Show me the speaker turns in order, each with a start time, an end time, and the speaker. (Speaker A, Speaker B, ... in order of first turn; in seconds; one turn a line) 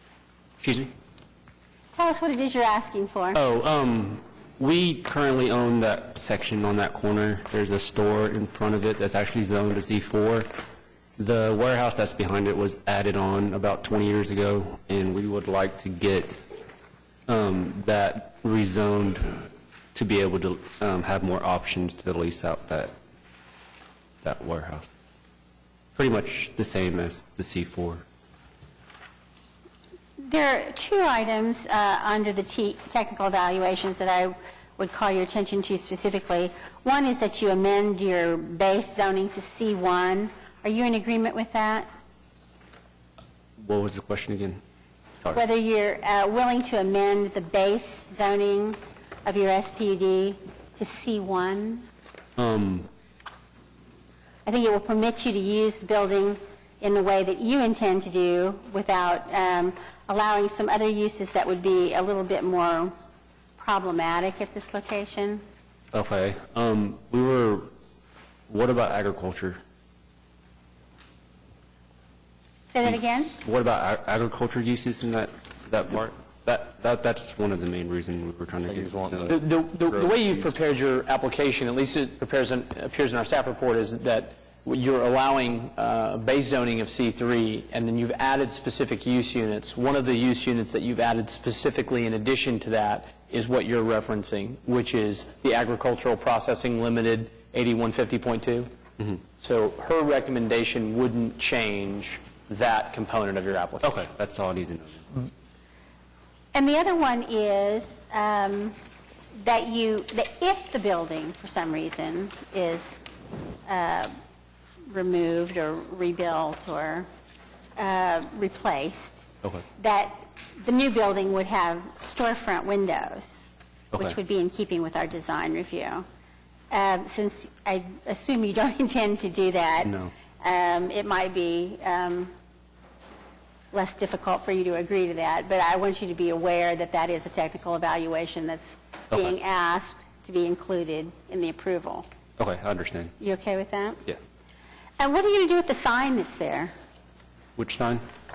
Speaker A: 0.6-0.9
Speaker B: 1.9-3.4
Speaker A: 3.3-10.6
Speaker A: 11.2-16.4
Speaker A: 17.3-22.9
Speaker A: 24.2-24.9
Speaker A: 25.9-28.0
Speaker B: 30.2-41.9
Speaker A: 43.6-44.6
Speaker B: 45.3-51.9
Speaker A: 52.4-52.9
Speaker B: 54.5-62.9
Speaker B: 63.6-65.4
Speaker A: 65.9-67.7
Speaker A: 68.5-69.6
Speaker B: 72.7-73.3
Speaker A: 72.8-79.4
Speaker C: 79.2-98.7
Speaker C: 99.4-103.9
Speaker A: 103.8-105.1
Speaker B: 106.5-108.7
Speaker B: 109.4-113.0
Speaker B: 113.7-114.1
Speaker B: 114.9-117.1
Speaker B: 117.8-119.2
Speaker B: 119.8-123.4
Speaker B: 123.9-126.0
Speaker B: 126.7-132.3
Speaker A: 129.8-130.1
Speaker B: 133.7-142.1
Speaker A: 142.4-143.1
Speaker B: 143.2-144.0
Speaker B: 145.0-146.7
Speaker A: 147.6-148.0